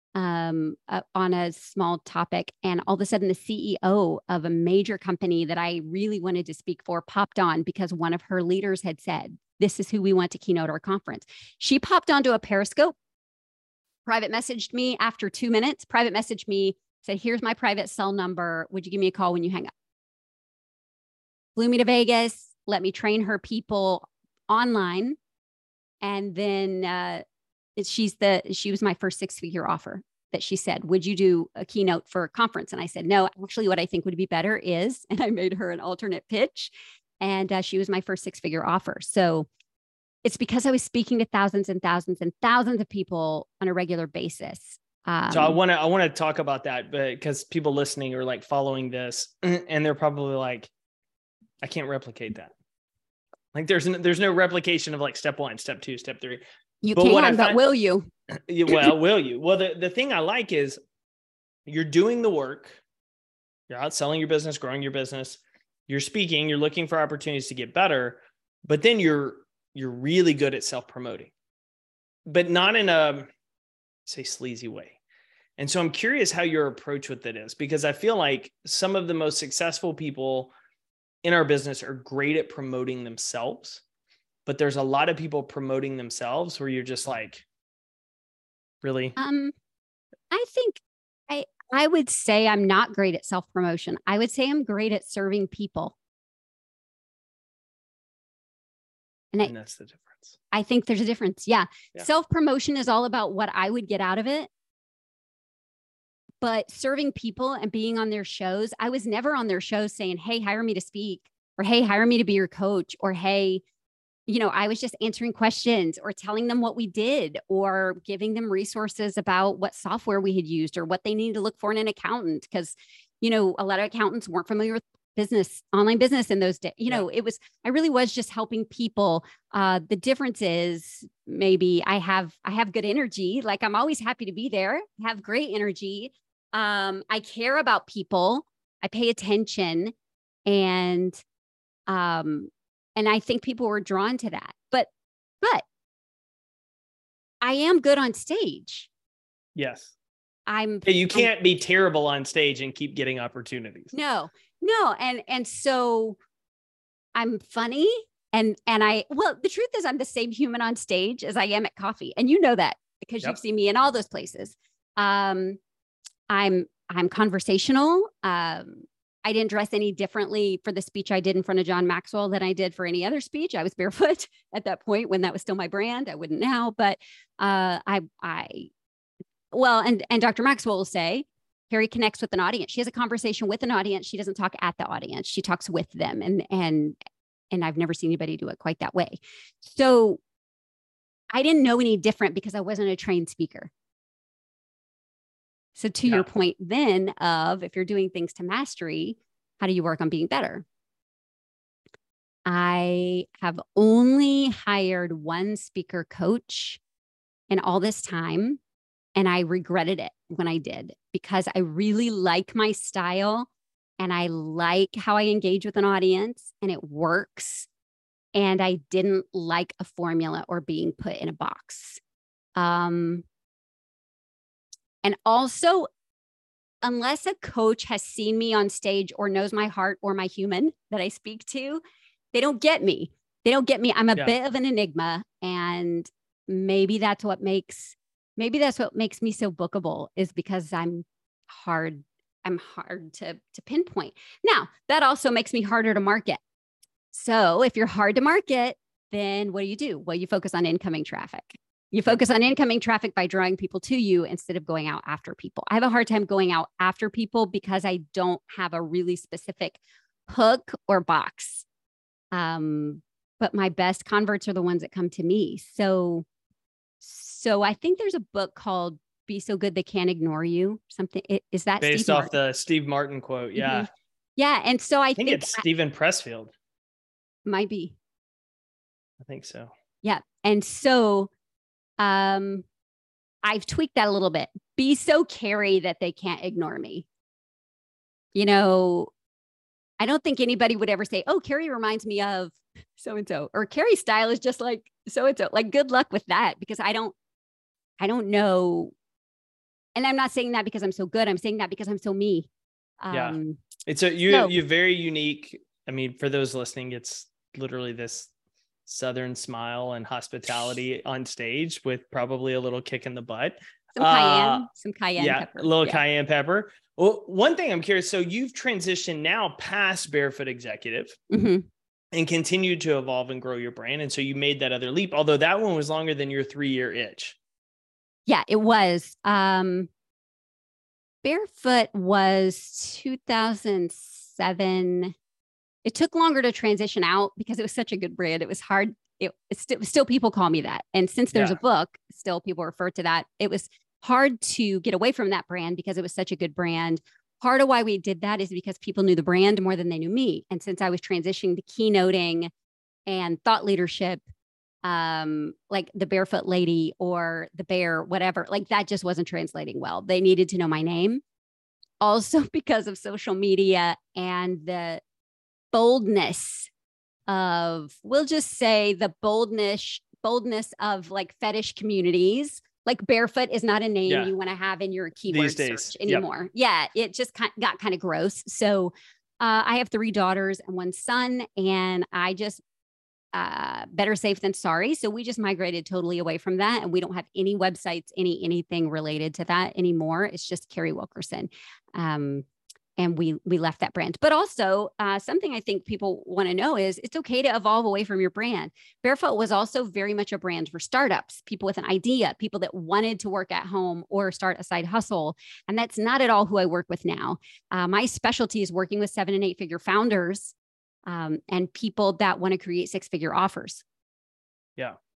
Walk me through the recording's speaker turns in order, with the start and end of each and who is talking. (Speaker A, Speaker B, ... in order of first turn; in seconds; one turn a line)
Speaker A: 0.1-12.9
Speaker A: 14.1-19.7
Speaker A: 21.6-25.2
Speaker A: 26.0-27.2
Speaker A: 27.8-39.5
Speaker A: 40.2-45.6
Speaker B: 45.3-50.7
Speaker B: 51.6-52.5
Speaker B: 53.5-56.4
Speaker A: 56.8-58.1
Speaker B: 57.0-57.6
Speaker B: 58.3-60.8
Speaker B: 61.6-62.8
Speaker B: 63.7-71.3
Speaker B: 72.3-73.3
Speaker B: 74.0-75.0
Speaker B: 75.6-80.5
Speaker B: 81.2-83.8
Speaker B: 84.5-87.4
Speaker B: 88.8-89.2
Speaker A: 89.2-89.5
Speaker A: 90.3-95.9
Speaker B: 99.4-100.3
Speaker A: 100.5-104.5
Speaker A: 106.4-113.6
Speaker A: 114.3-139.9
Speaker A: 140.4-141.2
Speaker A: 141.9-144.9
Speaker A: 147.4-148.9
Speaker B: 149.5-149.9
Speaker A: 150.5-151.3
Speaker B: 150.8-153.9
Speaker A: 153.9-156.2
Speaker A: 157.2-165.6
Speaker A: 166.3-178.7
Speaker A: 179.5-186.9
Speaker A: 187.5-190.2
Speaker A: 191.3-193.7
Speaker A: 195.8-200.6
Speaker A: 202.4-206.8
Speaker A: 207.5-208.6
Speaker A: 209.2-213.5
Speaker A: 214.0-217.7
Speaker A: 218.3-222.0
Speaker A: 222.6-223.2
Speaker A: 225.0-225.9
Speaker A: 226.8-231.8
Speaker A: 232.3-246.4
Speaker A: 247.1-261.6
Speaker A: 262.3-266.2
Speaker A: 267.0-272.3
Speaker B: 271.8-273.9
Speaker A: 273.6-275.6
Speaker B: 275.2-276.5
Speaker A: 277.4-277.9
Speaker B: 279.2-279.7
Speaker A: 280.0-281.3
Speaker A: 282.0-282.6
Speaker A: 283.4-287.1
Speaker A: 288.3-289.1
Speaker A: 290.0-297.1
Speaker A: 298.0-298.9
Speaker A: 299.9-302.5
Speaker A: 303.0-303.6
Speaker B: 303.1-308.3
Speaker A: 304.3-304.5
Speaker B: 308.9-321.2
Speaker A: 313.9-316.0
Speaker A: 321.3-321.7
Speaker B: 322.1-327.4
Speaker A: 328.3-329.9
Speaker A: 331.2-335.1
Speaker A: 335.8-352.5
Speaker A: 353.1-354.2
Speaker A: 354.8-361.2
Speaker A: 362.0-365.0
Speaker A: 365.7-366.7
Speaker A: 367.3-382.6
Speaker B: 374.1-374.3
Speaker B: 375.3-376.2
Speaker A: 383.3-392.4
Speaker A: 393.0-410.5
Speaker A: 411.1-413.8